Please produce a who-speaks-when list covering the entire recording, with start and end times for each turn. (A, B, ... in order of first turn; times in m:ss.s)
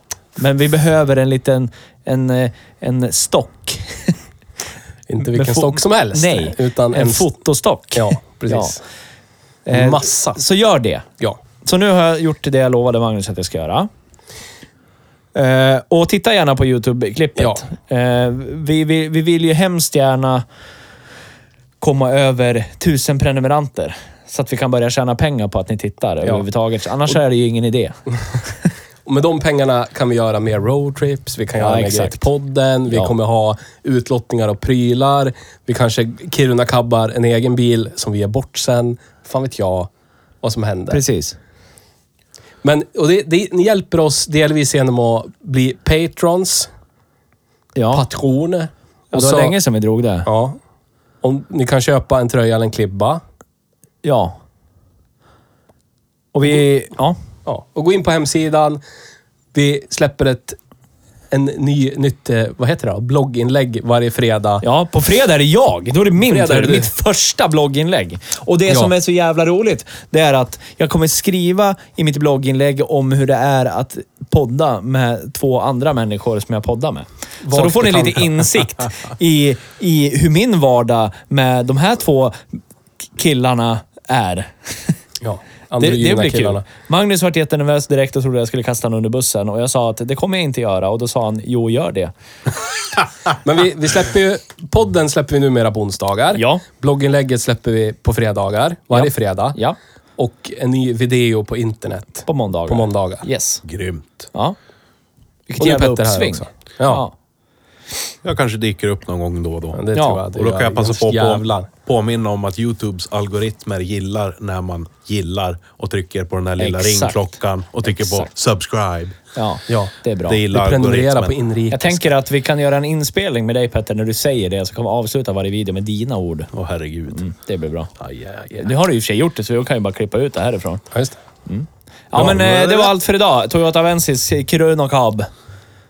0:00.4-0:04.2 A
0:05.1-0:07.3 B
0:05.3-0:08.7 A
0:07.9-0:08.8 B
0:09.6-0:11.0 A
0:09.7-0:10.4 B
0:11.6-0:13.9 A
0:15.3-0:20.4 A
0:21.8-0:27.9 A
0:29.0-0:39.9 B
0:31.6-0:32.2 A
0:40.4-0:41.0 B
0:40.9-0:41.4 A
0:42.6-0:46.7 B
0:47.8-0:48.0 A
0:47.9-0:49.6 B
0:49.1-0:50.3 A
0:50.2-0:50.6 B
0:51.2-0:53.2 B
0:54.0-0:54.4 A
0:56.3-0:57.2 A
0:57.4-0:58.8 B
0:59.5-1:00.6 B
1:01.3-1:04.6 B
1:04.6-1:22.4 A
1:06.2-1:06.9 B
1:17.4-1:18.4 B
1:23.2-1:24.9 A
1:25.2-1:26.6 B
1:25.8-1:32.1 A
1:33.4-1:39.6 B
1:36.3-1:36.6 A
1:38.9-1:39.8 A
1:40.2-1:43.2 B
1:42.2-1:43.6 A
1:43.6-1:44.3 C
1:45.5-1:47.1 A
1:45.6-1:47.0 B
1:48.2-1:59.2 C
1:49.7-1:51.7 B
1:49.9-1:50.2 A
1:56.6-1:57.3 A
1:57.8-1:58.3 A
1:59.3-2:00.4 A
1:59.7-1:59.9 B
2:00.2-2:01.3 C
2:00.5-2:02.0 B
2:01.7-2:06.5 A
2:06.5-2:07.2 C
2:07.1-2:07.9 A
2:08.0-2:08.5 C
2:08.5-2:10.8 A
2:10.9-2:11.2 B
2:11.4-2:15.3 A
2:12.1-2:12.9 C